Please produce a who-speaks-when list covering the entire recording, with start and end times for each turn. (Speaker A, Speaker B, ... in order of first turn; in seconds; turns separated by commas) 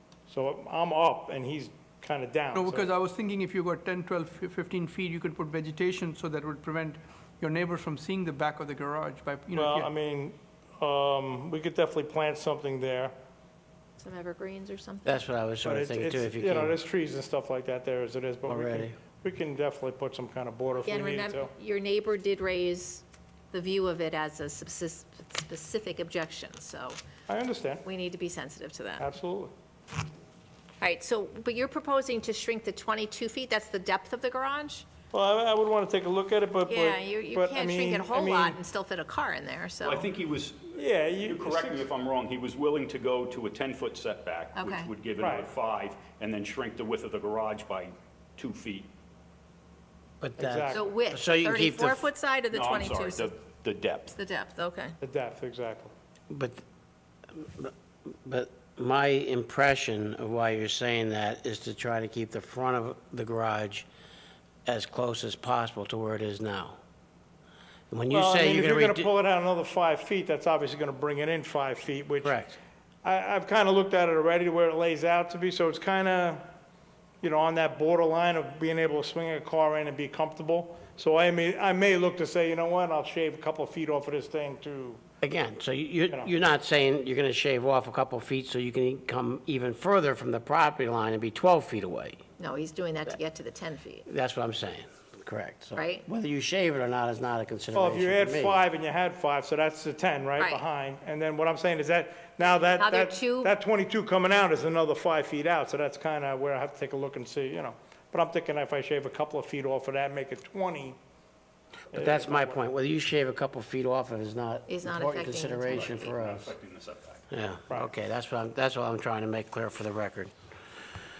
Speaker A: 0.3-2.9, Speaker B: 2.5-9.9, Speaker A: 9.5-13.1, Speaker C: 14.0-15.2, Speaker D: 15.0-16.8, Speaker A: 15.6-21.5, Speaker D: 18.5-18.9, Speaker C: 20.8-27.0, Speaker A: 27.3-27.8, Speaker C: 27.8-29.1, Speaker A: 29.0-29.5, Speaker C: 30.8-34.9, Speaker A: 35.1-38.6, Speaker C: 36.7-40.0, Speaker E: 39.8-48.9, Speaker A: 40.7-41.9, Speaker C: 44.5-44.9, Speaker A: 45.2-45.5, Speaker D: 50.2-52.1, Speaker A: 50.4-50.9, Speaker C: 50.7-53.3, Speaker E: 52.5-54.1, Speaker C: 54.1-55.0, Speaker A: 55.0-55.9, Speaker D: 56.3-56.6, Speaker D: 57.3-63.9, Speaker D: 64.6-66.8, Speaker D: 67.9-69.1, Speaker A: 68.1-72.4, Speaker D: 72.2-72.6, Speaker A: 73.0-76.5, Speaker A: 77.2-85.0, Speaker D: 85.2-92.2, Speaker A: 86.1-86.3, Speaker C: 92.4-94.0, Speaker D: 94.1-98.6, Speaker C: 95.8-96.0, Speaker A: 97.7-111.0, Speaker C: 100.4-100.6, Speaker C: 102.8-103.5, Speaker A: 111.9-112.6, Speaker D: 111.9-116.5, Speaker C: 114.7-116.1, Speaker E: 115.7-117.3, Speaker D: 117.3-120.3